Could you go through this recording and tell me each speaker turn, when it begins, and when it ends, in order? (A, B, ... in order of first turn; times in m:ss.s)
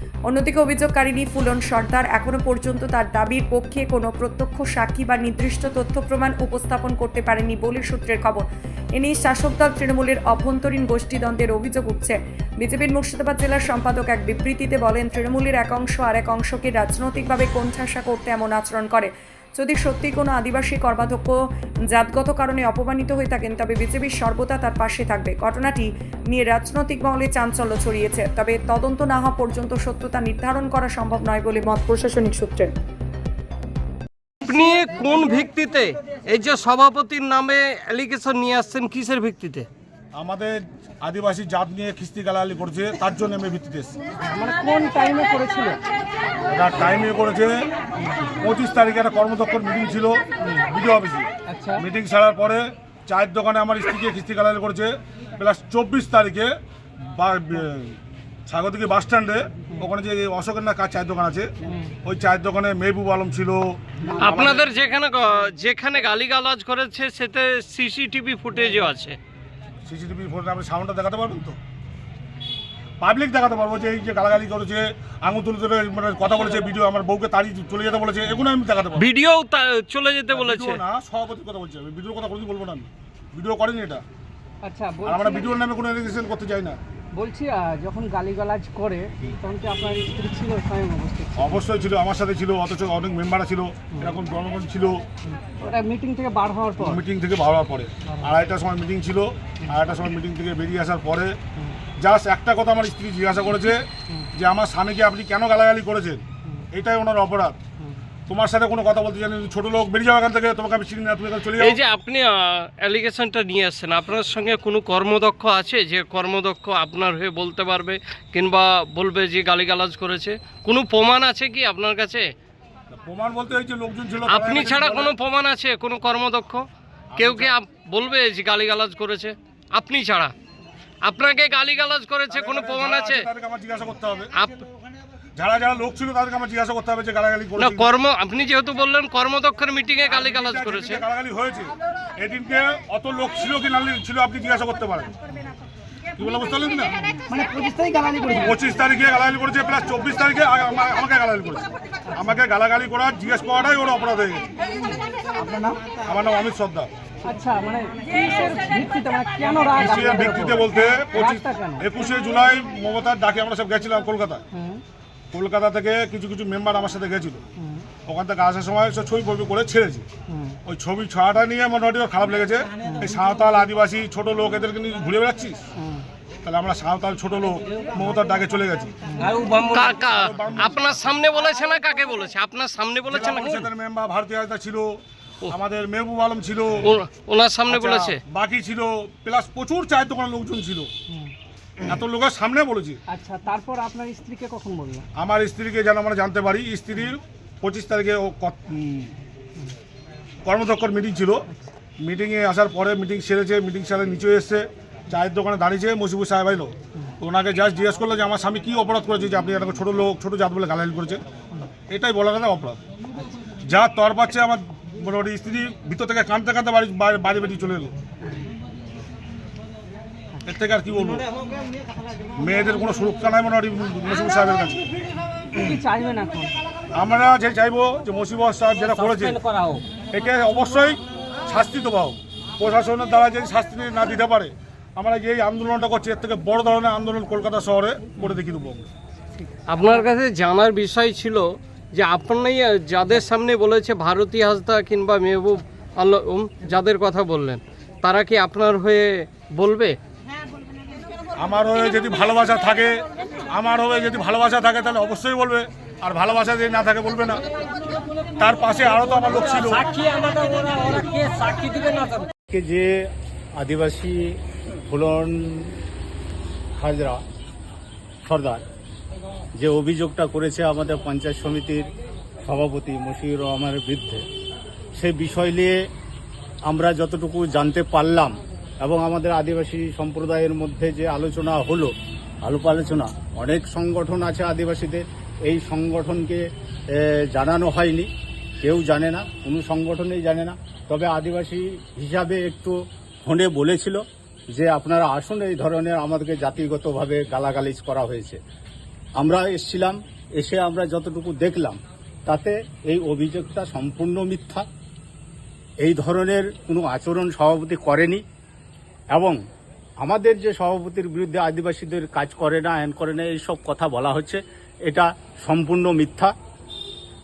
0:00.3-0:21.4 A
0:21.9-0:32.7 A
0:34.4-0:39.7 B
0:40.1-0:40.5 C
0:41.0-0:44.0 C
0:44.3-0:45.8 D
0:46.5-0:47.6 C
0:48.4-0:56.5 C
0:51.5-0:51.8 D
0:57.2-1:01.5 C
1:02.0-1:03.6 C
1:04.2-1:04.6 C
1:04.2-1:09.2 B
1:09.9-1:11.6 C
1:13.0-1:19.1 C
1:19.0-1:20.8 B
1:20.3-1:24.0 C
1:24.6-1:25.5 D
1:25.0-1:26.8 C
1:27.2-1:31.6 D
1:31.4-1:35.0 C
1:35.3-1:37.0 D
1:36.8-1:41.3 C
1:38.1-1:38.4 D
1:42.0-1:43.8 C
1:44.4-1:47.6 C
1:48.3-1:51.8 C
1:51.6-2:02.3 B
2:03.0-2:05.2 C
2:04.3-2:10.3 B
2:07.1-2:07.6 C
2:11.0-2:13.3 B
2:12.3-2:14.3 C
2:14.3-2:14.6 B
2:15.4-2:17.9 C
2:17.6-2:21.1 B
2:20.1-2:25.1 C
2:26.2-2:26.9 C
2:27.3-2:28.5 D
2:28.4-2:34.4 C
2:34.8-2:35.7 D
2:36.1-2:36.9 C
2:37.2-2:41.9 D
2:39.8-2:44.4 C
2:44.5-2:44.8 D
2:45.3-2:47.4 C
2:48.1-2:50.1 C
2:50.3-2:50.6 D
2:50.6-2:55.6 C
2:55.8-2:56.0 D
2:56.4-2:58.9 C
2:59.1-2:59.4 D
2:59.6-3:03.7 B
2:59.7-3:00.9 C
3:03.1-3:07.0 C
3:06.8-3:08.2 B
3:07.7-3:10.9 C
3:11.9-3:13.0 C
3:13.1-3:15.1 D
3:15.2-3:19.1 C
3:20.4-3:21.4 C
3:22.0-3:31.2 C
3:31.9-3:32.8 C
3:33.6-3:38.0 C
3:40.4-3:41.2 C
3:42.4-3:44.8 C
3:45.6-3:46.5 D
3:46.9-3:49.4 C
3:50.1-3:58.9 C
3:59.4-4:00.0 D
3:59.7-4:10.0 B
4:11.4-4:17.4 C
4:18.4-4:19.9 C
4:22.5-4:25.8 E
4:26.8-4:27.2 E
4:28.3-4:28.6 E
4:29.6-4:31.9 E
4:32.4-4:34.2 E
4:35.0-4:35.8 E
4:36.7-4:41.9 E
4:42.4-4:46.4 E
4:47.0-4:48.1 E
4:48.6-4:54.0 E
4:54.5-4:58.4 E
4:59.2-5:04.7 E
5:05.8-5:08.2 E
5:09.1-5:09.4 E
5:10.0-5:16.3 E